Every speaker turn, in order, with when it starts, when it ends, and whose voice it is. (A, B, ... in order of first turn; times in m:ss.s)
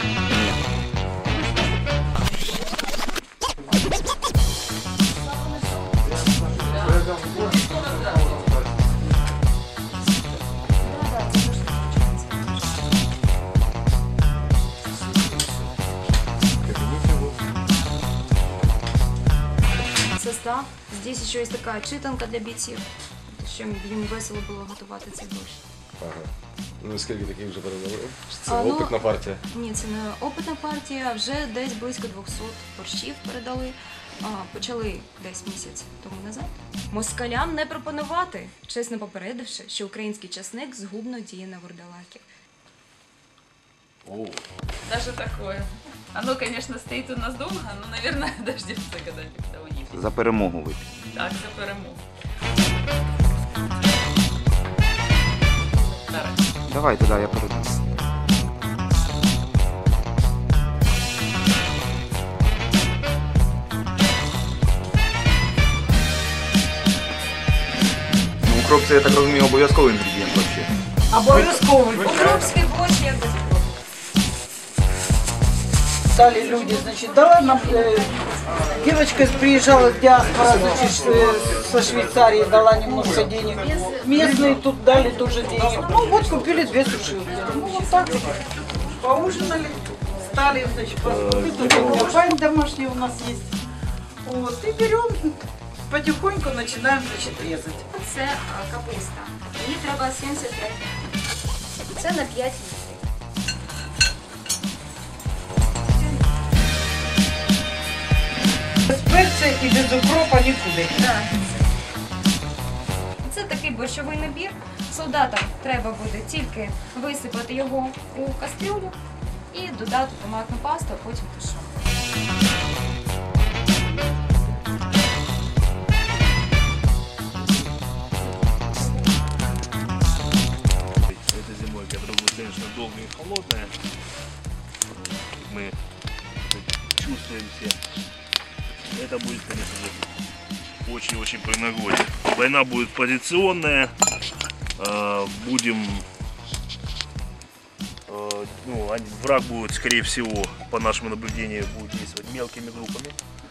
0:00.3-0:00.6 A
0:01.3-0:01.7 B
0:06.6-0:08.6 C
0:10.8-0:12.7 B
0:16.6-0:17.4 D
0:20.2-0:25.6 B
0:26.0-0:29.4 D
0:28.4-0:42.3 B
0:44.8-0:50.1 C
0:49.9-0:50.9 A
0:51.1-0:52.0 C
0:55.8-0:56.4 C
0:56.7-0:57.8 A
1:08.4-1:10.7 A
1:11.1-1:12.3 E
1:11.3-1:13.8 B
1:16.1-1:18.1 E
1:18.7-1:33.5 E
1:31.0-1:32.1 F
1:34.2-1:35.4 E
1:35.9-1:37.9 E
1:37.9-1:41.0 B
1:41.9-1:43.0 B
1:48.9-1:51.0 E
1:51.0-1:51.5 B
1:53.2-1:59.0 B
1:59.5-2:01.9 B
2:11.1-2:13.7 F
2:15.3-2:15.8 F
2:16.4-2:17.8 F
2:18.9-2:20.0 F
2:20.8-2:23.9 F
2:24.8-2:26.1 F
2:28.1-2:33.2 F